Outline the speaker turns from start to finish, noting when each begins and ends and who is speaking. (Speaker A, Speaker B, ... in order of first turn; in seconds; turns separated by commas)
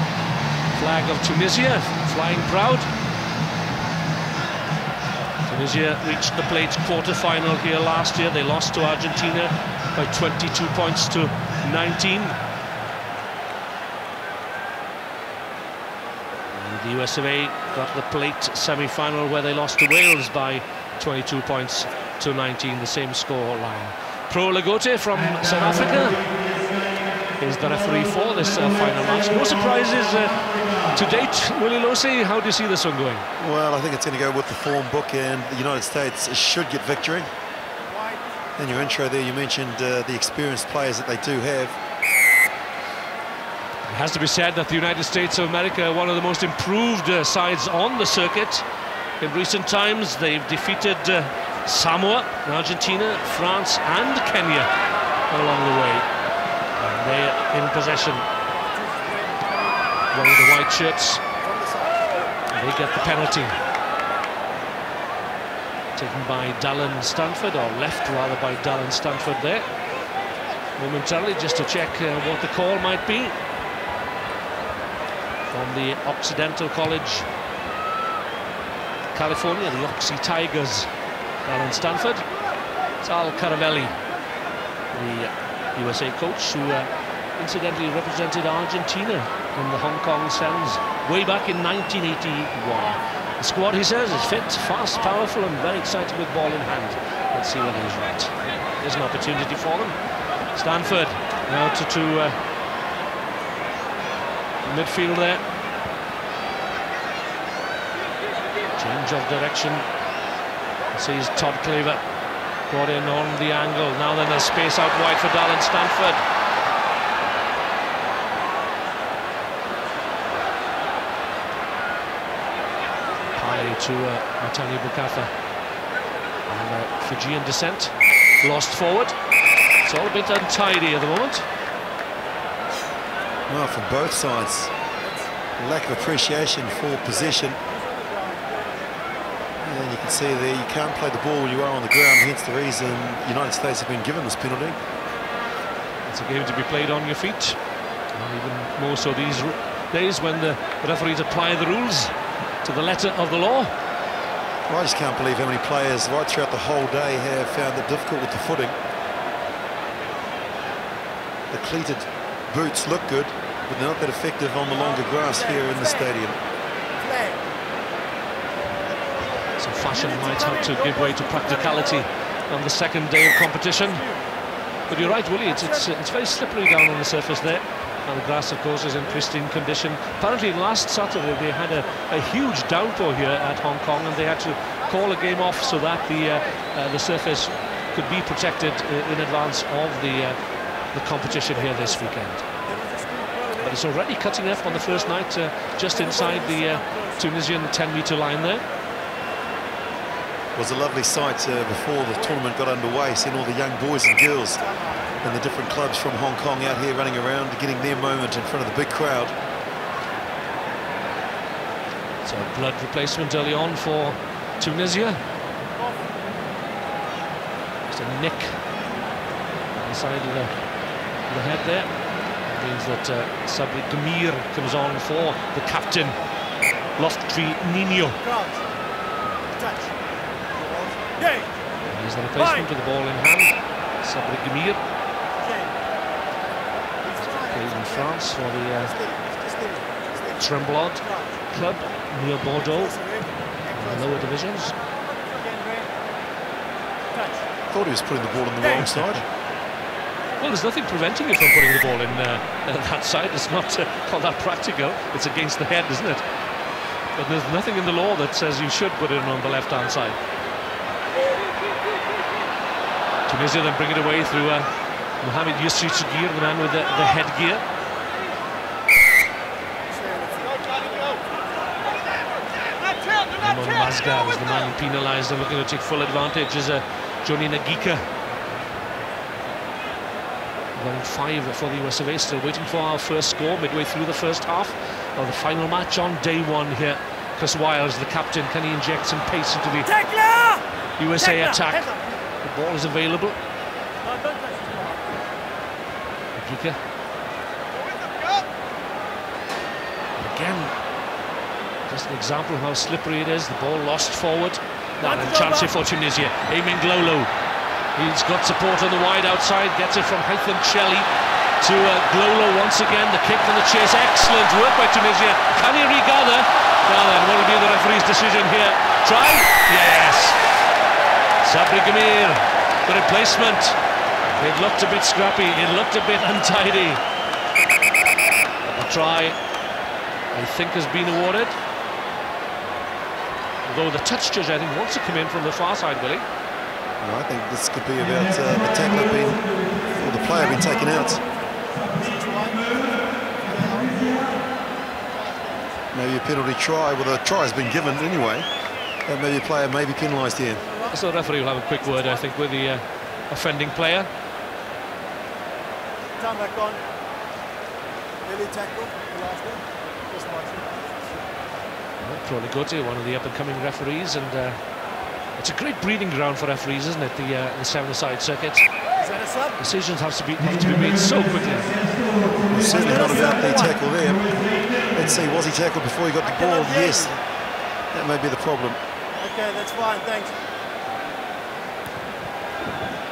Speaker A: 0.7-2.9, Speaker A: 5.4-12.4, Speaker A: 16.5-26.3, Speaker A: 27.4-33.3, Speaker B: 33.4-37.3, Speaker C: 37.9-38.2, Speaker B: 38.6-41.8, Speaker A: 43.9-48.6, Speaker A: 49.2-54.7, Speaker A: 55.3-56.1, Speaker A: 56.8-58.3, Speaker C: 58.9-59.7, Speaker A: 60.1-61.2, Speaker C: 61.4-62.0, Speaker A: 62.5-63.6, Speaker A: 66.0-69.7, Speaker A: 70.8-73.4, Speaker A: 75.5-77.3, Speaker A: 79.1-80.9, Speaker A: 81.5-82.2, Speaker A: 83.0-84.0, Speaker A: 84.9-100.0, Speaker A: 100.5-102.4, Speaker A: 104.6-105.4, Speaker A: 108.8-109.9, Speaker A: 110.9-112.0, Speaker A: 112.7-116.2, Speaker A: 123.4-125.3, Speaker A: 126.5-129.2, Speaker A: 129.8-131.5, Speaker B: 133.5-134.7, Speaker B: 135.6-137.6, Speaker C: 137.9-138.8, Speaker B: 139.6-144.8, Speaker A: 146.1-147.6, Speaker A: 148.2-153.7, Speaker B: 154.7-158.8, Speaker B: 161.5-166.4, Speaker C: 167.0-167.4, Speaker A: 169.6-174.1, Speaker A: 174.9-190.4, Speaker A: 190.9-192.5, Speaker C: 192.9-193.5, Speaker A: 193.6-198.6, Speaker B: 200.6-204.7, Speaker B: 205.2-209.3, Speaker A: 212.2-215.2, Speaker A: 217.9-218.6, Speaker A: 219.8-220.5, Speaker A: 221.3-221.9, Speaker A: 222.4-226.2, Speaker A: 227.0-228.2, Speaker C: 228.2-228.6, Speaker C: 229.6-229.9, Speaker C: 230.6-231.5, Speaker A: 231.9-234.8, Speaker C: 235.4-235.7, Speaker C: 237.0-237.8, Speaker A: 237.2-239.0, Speaker C: 238.9-240.0, Speaker A: 240.3-243.0, Speaker C: 242.9-243.2, Speaker A: 243.8-244.8, Speaker C: 245.2-245.9, Speaker C: 247.1-247.4, Speaker B: 247.7-249.3, Speaker A: 250.4-256.2, Speaker A: 257.1-260.2, Speaker A: 263.3-264.7, Speaker A: 265.2-267.6, Speaker C: 269.9-271.1, Speaker A: 273.4-278.1, Speaker A: 280.8-290.0, Speaker C: 290.0-290.6, Speaker A: 291.0-293.4, Speaker C: 294.1-295.0, Speaker A: 296.4-296.8, Speaker A: 300.2-300.8, Speaker A: 301.9-307.3, Speaker A: 307.9-311.1, Speaker A: 311.6-320.4, Speaker A: 321.4-323.8, Speaker A: 324.3-327.0, Speaker A: 328.6-329.4, Speaker A: 330.3-331.6, Speaker A: 333.6-336.3, Speaker B: 337.0-341.2, Speaker C: 341.9-342.7, Speaker C: 343.4-344.3, Speaker B: 345.9-348.5, Speaker B: 349.1-350.7, Speaker A: 350.9-354.1, Speaker C: 356.2-356.8, Speaker C: 358.2-361.1, Speaker A: 362.0-364.6, Speaker A: 365.4-368.7, Speaker C: 369.0-369.6, Speaker A: 369.6-371.8, Speaker B: 372.5-377.2, Speaker B: 377.9-378.8, Speaker C: 379.2-380.4